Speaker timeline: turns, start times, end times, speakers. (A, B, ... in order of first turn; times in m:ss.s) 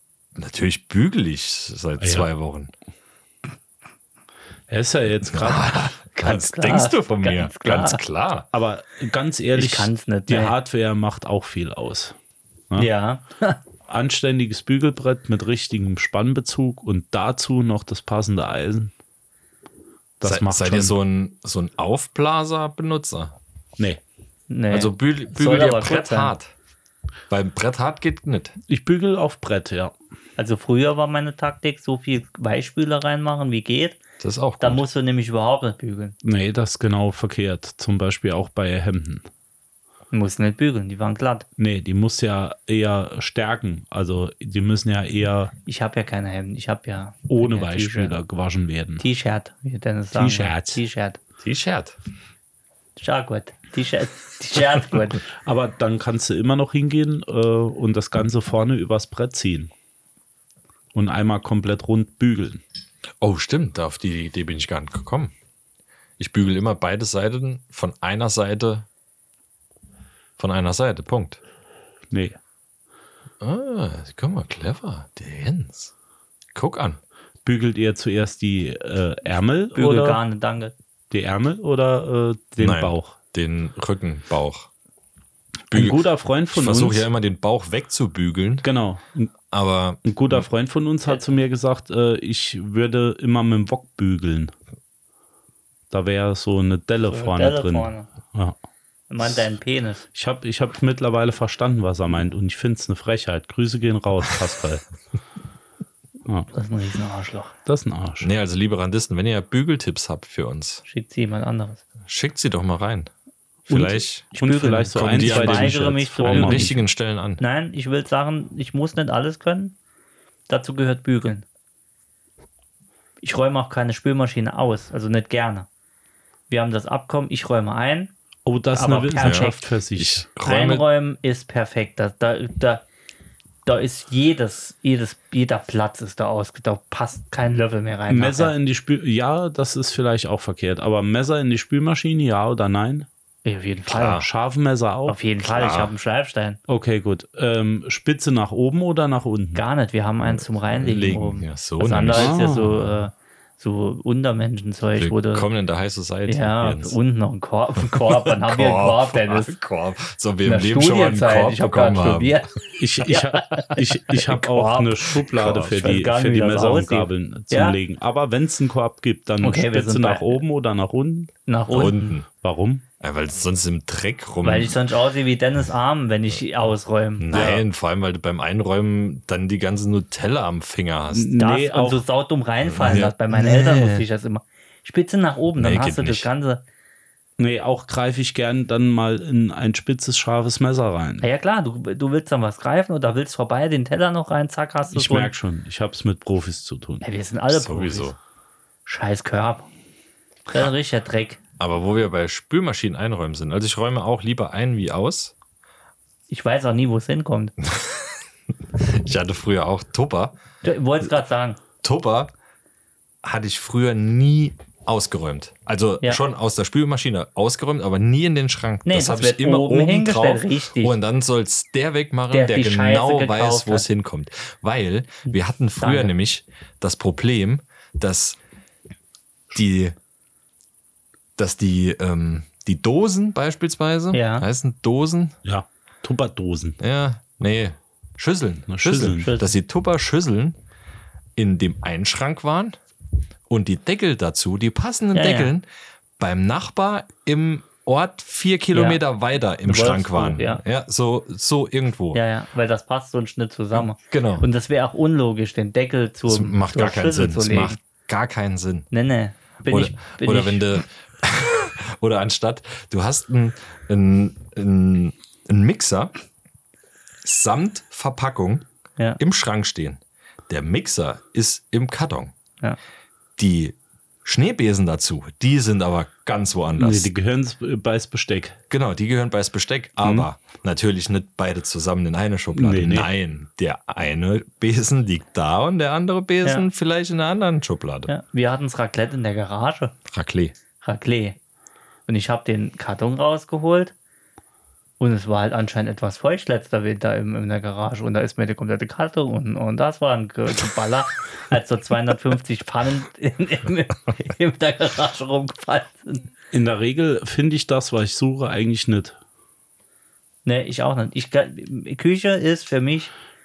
0:00.4-0:02.7 A
0:02.0-0:02.3 B
0:04.7-0:05.7 B
0:05.3-0:08.5 A
0:06.2-0:08.0 C
0:08.5-0:12.2 B
0:09.5-0:10.5 C
0:12.8-0:13.6 C
0:13.9-0:18.9 B
0:20.2-0:21.0 B
0:20.2-0:23.3 A
0:24.5-0:26.3 C
0:24.7-0:26.5 A
0:27.3-0:28.6 A
0:28.7-0:29.9 B
0:30.4-0:34.0 C
0:34.2-0:34.8 A
0:34.6-0:36.2 C
0:36.2-0:39.2 B
0:40.1-0:41.4 C
0:41.6-0:45.5 B
0:45.6-0:48.2 C
0:47.3-0:49.0 B
0:49.0-0:51.2 C
0:50.1-0:50.8 B
0:51.4-0:51.9 A
0:53.0-0:55.2 C
0:55.4-0:59.7 B
1:00.9-1:02.6 B
1:03.2-1:05.3 A
1:06.2-1:08.8 A
1:10.4-1:11.4 A
1:12.1-1:12.4 B
1:13.4-1:15.9 A
1:16.5-1:17.0 A
1:17.4-1:20.2 B
1:19.7-1:20.7 C
1:21.1-1:23.1 B
1:22.6-1:24.7 A
1:25.7-1:27.1 B
1:25.7-1:28.6 A
1:28.6-1:29.3 B
1:29.5-1:30.4 A
1:30.0-1:34.5 B
1:35.9-1:38.5 B
1:37.1-1:38.1 C
1:39.1-1:40.0 C
1:40.1-1:44.8 B
1:46.5-1:47.5 C
1:47.6-1:48.3 B
1:48.2-1:50.8 A
1:50.8-1:51.8 C
1:52.0-1:53.1 A
1:53.7-1:54.3 A
1:53.7-1:56.8 B
1:54.3-1:56.7 C
1:54.9-1:57.4 A
1:57.4-1:59.8 C
2:00.5-2:01.4 C
2:03.2-2:05.7 C
2:06.5-2:08.1 C
2:08.4-2:10.2 B
2:08.7-2:09.6 C
2:09.2-2:10.8 A
2:10.4-2:12.8 C
2:13.6-2:18.5 C
2:18.1-2:23.1 B
2:23.4-2:24.2 C
2:23.9-2:24.3 A
2:24.2-2:25.2 B
2:25.1-2:26.6 C
2:25.4-2:25.9 A
2:26.7-2:29.6 B
2:29.6-2:35.5 C
2:30.2-2:32.5 A
2:32.1-2:32.8 B
2:35.0-2:37.0 A
2:36.3-2:39.5 C
2:38.0-2:42.4 A
2:40.4-2:42.5 C
2:42.8-2:51.3 B
2:43.0-2:47.8 C
2:45.4-2:45.7 A
2:49.4-2:50.4 C
2:51.5-2:52.1 C
2:51.7-2:52.3 A
2:52.3-2:52.8 B
2:53.0-2:54.8 A
2:54.4-2:57.4 C
2:57.2-3:01.3 A
2:57.3-2:57.6 B
3:01.1-3:02.0 B
3:01.4-3:06.6 C
3:02.7-3:04.0 A
3:05.6-3:06.3 A
3:07.4-3:11.2 B
3:11.2-3:15.3 C
3:14.9-3:17.0 B
3:17.0-3:18.1 C
3:17.5-3:18.2 A
3:18.8-3:19.7 C
3:20.5-3:21.4 C
3:21.6-3:25.3 A
3:26.3-3:27.5 C
3:27.6-3:28.2 A
3:28.7-3:30.4 A
3:30.6-3:31.6 C
3:31.8-3:32.3 A
3:33.2-3:48.4 A
3:38.8-3:41.0 C
3:42.3-3:43.8 C
3:45.3-3:46.1 C
3:49.5-3:50.0 A
3:51.4-3:55.3 A
3:54.1-3:54.4 C
3:55.4-3:56.8 B
3:56.8-4:00.6 A
3:58.7-3:59.3 B
3:59.2-3:59.5 C
4:01.4-4:02.8 A
4:03.5-4:05.7 A
4:05.1-4:05.5 C
4:06.2-4:12.2 A
4:08.7-4:09.0 C
4:09.6-4:10.6 C
4:12.1-4:17.8 C
4:14.0-4:14.4 A
4:16.2-4:18.9 A
4:18.9-4:20.8 C
4:19.6-4:26.1 A
4:27.2-4:28.6 A
4:29.2-4:32.3 A
4:33.4-4:37.1 A
4:36.8-4:38.6 B
4:38.7-4:48.1 A
4:42.5-4:43.1 B
4:48.1-4:49.9 C
4:50.1-4:50.5 A
4:50.8-4:51.4 C
4:52.1-4:53.9 C
4:55.0-5:06.2 C
5:06.5-5:09.2 B
5:10.4-5:13.1 C